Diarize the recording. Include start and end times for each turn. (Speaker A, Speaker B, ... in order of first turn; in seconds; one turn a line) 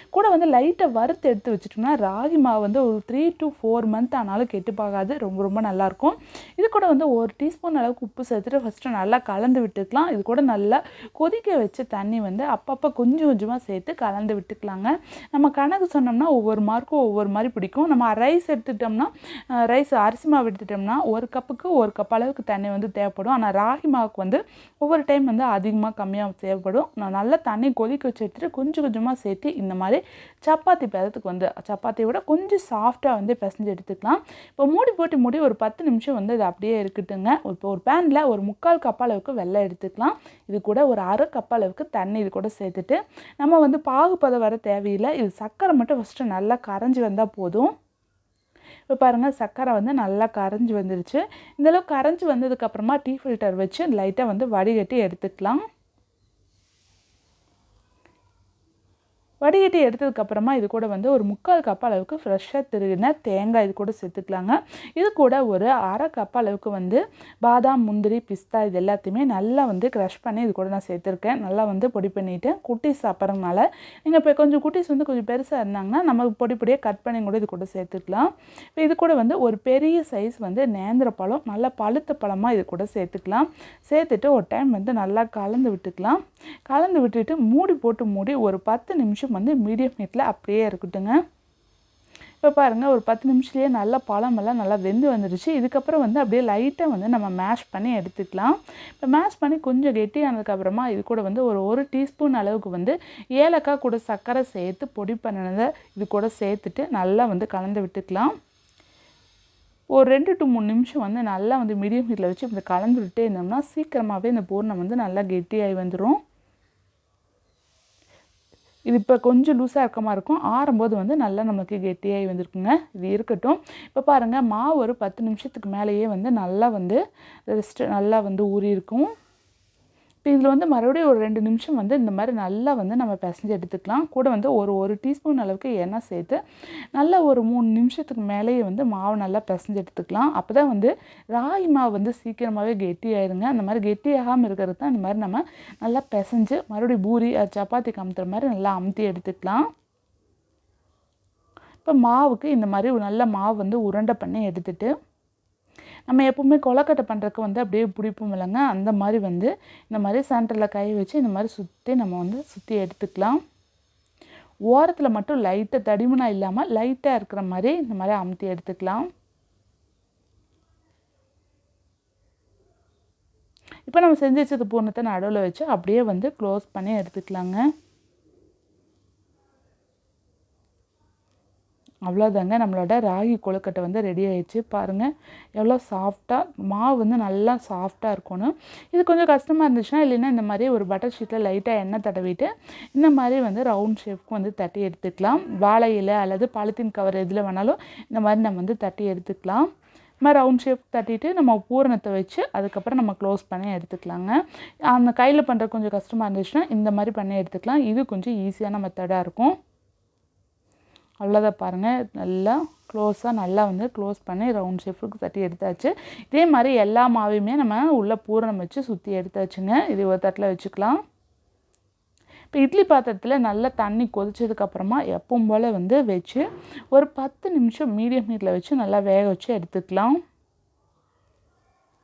Speaker A: 0.1-47.7
Speaker A: 48.9-55.6
Speaker A: 59.4-91.1
Speaker A: 92.4-108.3
Speaker A: 110.0-116.2
Speaker A: 118.9-129.1
Speaker A: 130.2-136.4
Speaker A: 136.9-149.6
Speaker A: 151.8-154.9
Speaker A: 156.1-163.4
Speaker A: 164.7-169.1
Speaker A: 173.9-177.6
Speaker A: 182.1-199.7
Speaker A: 200.2-204.4
Speaker A: 204.9-209.6
Speaker A: 211.2-221.0
Speaker A: 222.5-230.2